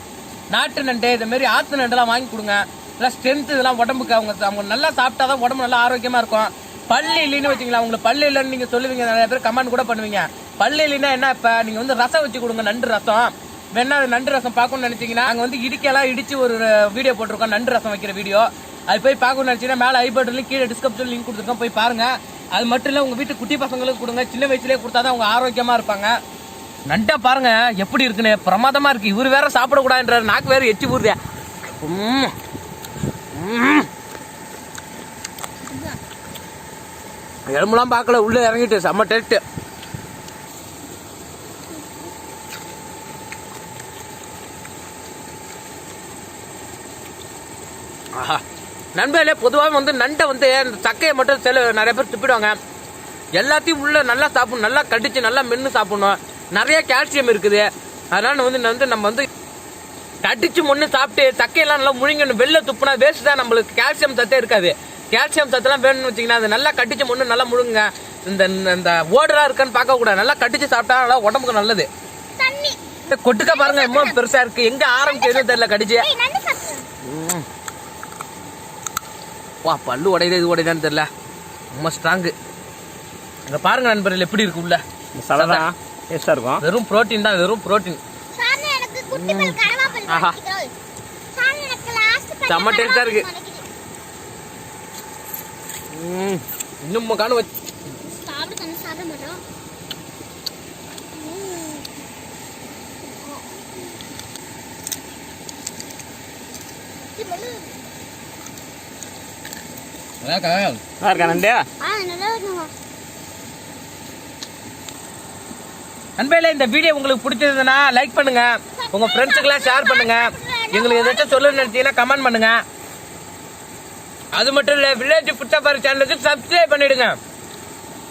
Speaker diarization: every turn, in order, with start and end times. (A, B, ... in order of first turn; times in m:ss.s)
0:00.5-0:26.1 A
0:26.9-0:31.2 A
0:31.8-0:32.3 A
0:33.3-0:33.9 A
0:37.5-0:39.4 A
0:48.1-0:48.4 A
0:49.0-0:52.6 A
0:53.4-0:59.3 A
1:00.2-1:11.9 A
1:12.4-1:12.8 B
1:13.1-1:16.1 A
1:13.4-1:14.2 B
1:14.9-1:16.9 B
1:17.0-1:17.4 A
1:19.6-1:21.1 A
1:21.7-1:22.3 A
1:23.5-1:24.8 A
1:25.2-1:26.6 C
1:25.3-1:25.7 A
1:26.6-1:28.0 A
1:28.3-1:30.7 B
1:29.1-1:30.4 A
1:31.3-1:33.7 B
1:32.5-1:33.2 A
1:35.9-1:37.5 A
1:37.9-1:39.4 B
1:41.1-1:41.8 B
1:43.2-1:44.0 B
1:47.2-1:47.8 B
1:50.2-1:50.8 A
1:51.0-1:51.7 C
1:51.1-1:52.7 B
1:56.2-2:02.6 A
1:58.8-2:01.7 B
2:04.3-2:07.2 A